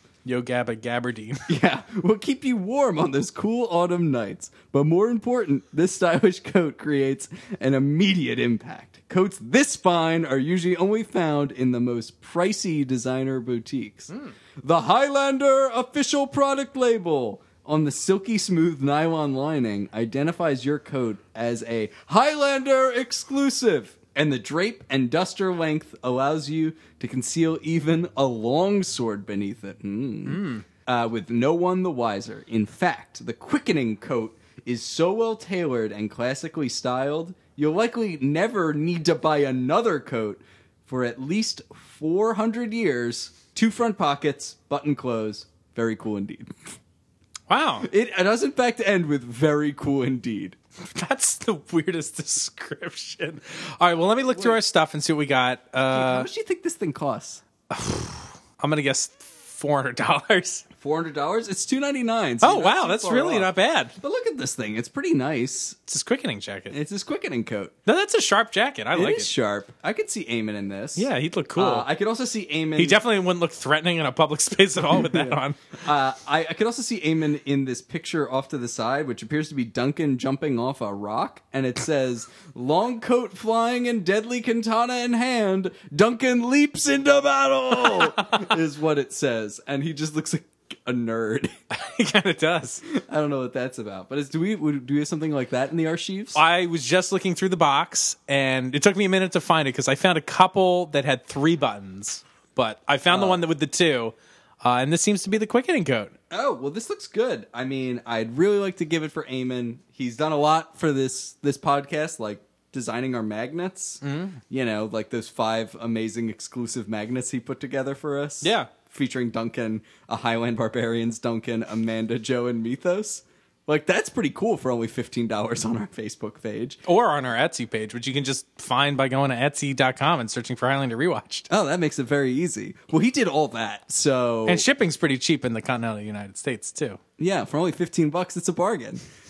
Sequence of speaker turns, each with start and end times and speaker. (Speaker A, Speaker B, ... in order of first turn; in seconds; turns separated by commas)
Speaker A: 0.2-1.5, Speaker B: 1.5-46.6, Speaker A: 30.3-30.6, Speaker A: 47.5-47.9, Speaker B: 47.8-50.6, Speaker A: 50.9-56.3, Speaker B: 55.9-57.4, Speaker A: 57.7-60.6, Speaker B: 60.8-65.8, Speaker A: 62.4-63.9, Speaker A: 65.9-66.8, Speaker B: 66.7-67.7, Speaker A: 67.8-69.3, Speaker B: 68.9-73.0, Speaker A: 71.0-71.9, Speaker A: 72.8-75.6, Speaker B: 74.9-91.5, Speaker A: 87.9-88.5, Speaker A: 91.7-92.8, Speaker B: 92.8-96.4, Speaker A: 96.3-106.1, Speaker B: 103.1-103.4, Speaker B: 106.3-126.8, Speaker A: 114.0-114.4, Speaker A: 118.4-118.7, Speaker A: 126.8-131.5, Speaker B: 131.5-134.6, Speaker A: 134.5-137.0, Speaker B: 137.2-139.0